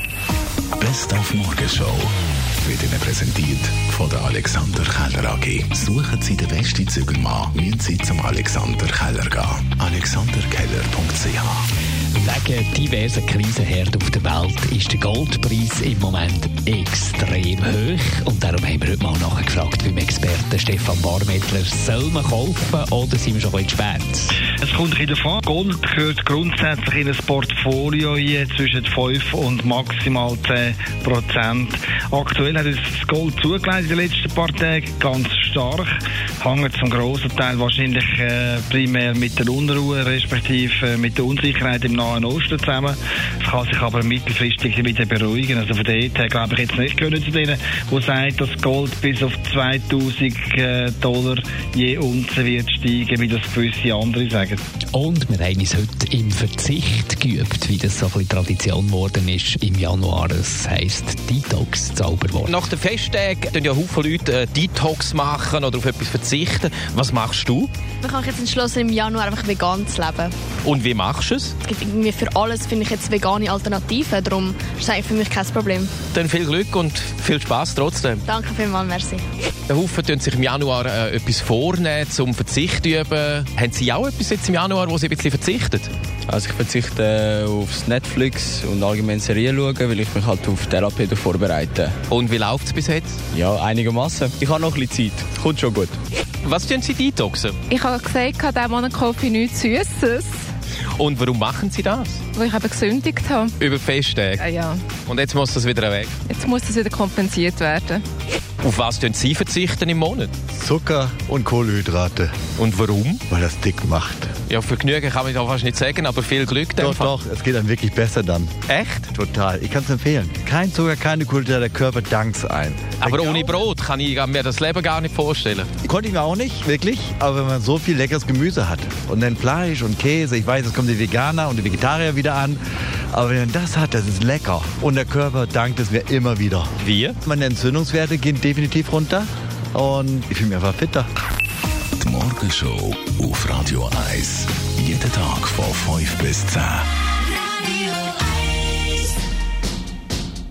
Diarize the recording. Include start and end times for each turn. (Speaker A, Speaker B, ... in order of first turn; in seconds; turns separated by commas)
Speaker A: 0.8-11.7, Speaker B: 12.1-24.4, Speaker C: 24.6-54.6, Speaker B: 54.9-62.5, Speaker D: 62.5-67.7, Speaker E: 68.0-70.3, Speaker D: 70.6-71.5, Speaker E: 71.6-76.0, Speaker D: 76.1-78.2, Speaker E: 78.3-79.2, Speaker D: 79.7-85.9, Speaker F: 86.3-91.9, Speaker D: 92.1-93.2, Speaker F: 93.3-95.9, Speaker D: 96.4-97.6, Speaker G: 97.7-100.4, Speaker D: 101.0-102.2, Speaker G: 102.3-103.5, Speaker D: 103.6-104.4, Speaker G: 104.4-104.8, Speaker D: 105.0-106.2, Speaker G: 106.3-108.0, Speaker D: 108.6-110.3, Speaker H: 110.5-112.3, Speaker D: 112.6-113.2, Speaker H: 113.3-114.3, Speaker D: 114.5-117.1, Speaker H: 116.8-118.5, Speaker D: 118.7-119.1, Speaker H: 119.1-123.6, Speaker D: 123.0-125.7, Speaker H: 125.8-132.6, Speaker H: 133.1-136.7, Speaker D: 136.8-137.2, Speaker H: 137.2-141.1, Speaker A: 142.0-146.9